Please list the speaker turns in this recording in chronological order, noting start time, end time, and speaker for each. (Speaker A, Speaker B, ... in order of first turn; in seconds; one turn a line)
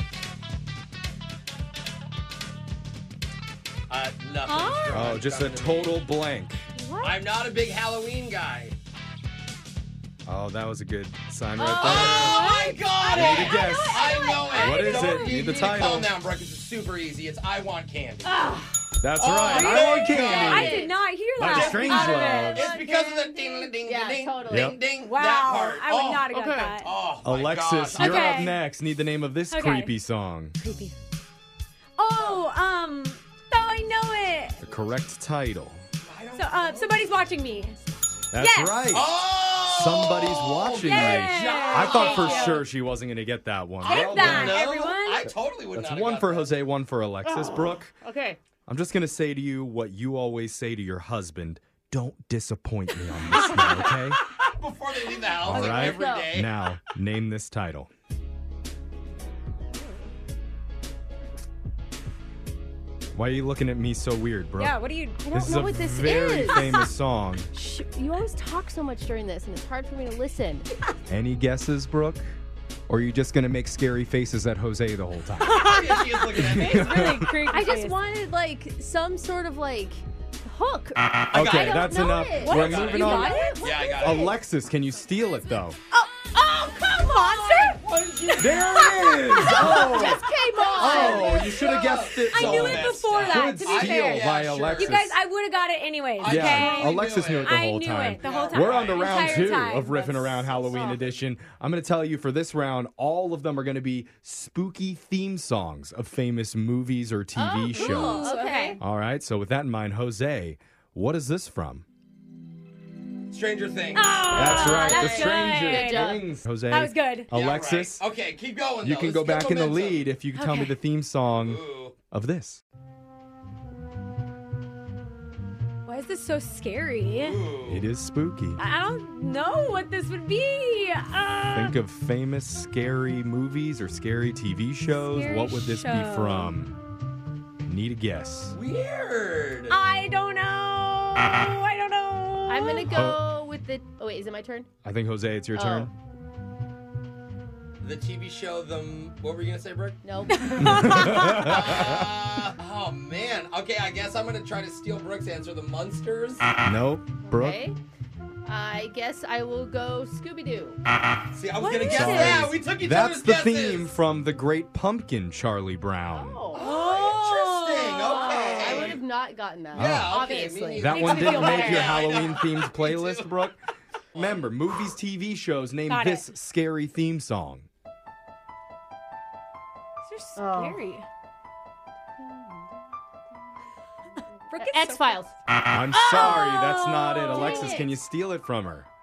Speaker A: 3.9-6.0
Speaker B: 4.5-5.2
Speaker C: 4.9-6.7
Speaker B: 6.8-7.2
Speaker A: 7.0-8.8
Speaker C: 10.2-12.3
Speaker B: 11.5-15.4
Speaker A: 11.8-18.4
Speaker C: 13.1-16.1
Speaker D: 18.3-21.0
Speaker C: 19.0-22.7
Speaker A: 19.2-20.8
Speaker B: 19.3-23.5
Speaker A: 21.4-28.5
Speaker D: 21.7-22.0
Speaker D: 22.6-24.8
Speaker C: 24.5-24.8
Speaker B: 25.0-26.9
Speaker D: 26.3-26.7
Speaker C: 27.2-30.6
Speaker B: 27.9-28.6
Speaker B: 29.5-29.9
Speaker B: 30.6-30.9
Speaker B: 32.0-34.6
Speaker C: 34.6-35.8
Speaker A: 36.0-37.1
Speaker B: 36.4-37.8
Speaker C: 38.3-44.6
Speaker B: 38.3-38.8
Speaker A: 38.9-42.6
Speaker B: 40.8-42.6
Speaker A: 43.8-46.5
Speaker B: 43.8-45.3
Speaker C: 45.7-47.9
Speaker D: 47.2-48.4
Speaker C: 48.7-54.2
Speaker A: 53.3-56.5
Speaker D: 53.3-53.9
Speaker C: 55.4-57.9
Speaker D: 55.5-56.3
Speaker C: 63.1-64.8
Speaker B: 64.5-65.2
Speaker D: 65.2-66.9
Speaker C: 65.3-67.5
Speaker D: 67.5-70.7
Speaker C: 71.1-72.2
Speaker C: 72.9-75.7
Speaker B: 75.4-78.0
Speaker A: 75.5-77.2
Speaker C: 76.4-77.3
Speaker D: 77.4-84.3
Speaker A: 81.3-81.8
Speaker C: 81.3-83.4
Speaker B: 82.3-83.9
Speaker A: 82.4-84.4
Speaker C: 83.9-85.8
Speaker B: 85.9-87.8
Speaker D: 86.3-87.8
Speaker A: 87.8-89.2
Speaker C: 88.4-90.2
Speaker D: 88.4-91.8
Speaker B: 89.3-91.3
Speaker A: 90.5-95.1
Speaker C: 90.7-95.1
Speaker B: 92.2-100.1
Speaker A: 96.2-97.5
Speaker C: 96.2-111.8
Speaker A: 98.2-99.6
Speaker D: 100.2-101.1
Speaker D: 107.3-108.8
Speaker B: 107.7-108.8
Speaker A: 113.3-114.3
Speaker B: 113.9-117.3
Speaker C: 114.3-118.0
Speaker D: 114.4-116.2
Speaker A: 117.3-120.1
Speaker C: 118.8-122.6
Speaker B: 120.3-120.8
Speaker A: 121.4-122.0
Speaker B: 125.8-127.5
Speaker A: 127.0-127.9
Speaker C: 127.7-128.6
Speaker B: 128.6-131.8
Speaker C: 131.5-136.7
Speaker B: 134.9-136.5
Speaker C: 137.6-138.6
Speaker A: 138.5-139.8
Speaker B: 139.7-142.9
Speaker D: 142.5-144.7
Speaker C: 142.9-143.2
Speaker C: 144.8-145.9
Speaker D: 145.5-145.9
Speaker A: 147.8-150.0
Speaker D: 150.0-151.3
Speaker B: 150.3-151.6
Speaker C: 150.6-152.0
Speaker A: 151.4-156.4
Speaker C: 156.6-157.6
Speaker D: 157.2-157.8
Speaker D: 158.4-160.8
Speaker A: 161.3-163.9
Speaker B: 161.5-162.5
Speaker C: 161.8-166.4
Speaker D: 166.1-166.6
Speaker A: 166.5-169.0
Speaker B: 166.5-169.0
Speaker D: 167.9-171.8
Speaker A: 169.7-173.5
Speaker C: 169.7-170.2
Speaker C: 170.7-173.6
Speaker B: 170.8-172.2
Speaker A: 174.1-174.5
Speaker C: 174.1-177.7
Speaker B: 175.9-176.3
Speaker B: 180.1-181.1
Speaker D: 180.4-180.8
Speaker D: 182.2-182.6
Speaker B: 184.5-185.2
Speaker D: 184.6-185.4
Speaker C: 185.6-188.9
Speaker B: 185.9-187.8
Speaker D: 187.2-187.9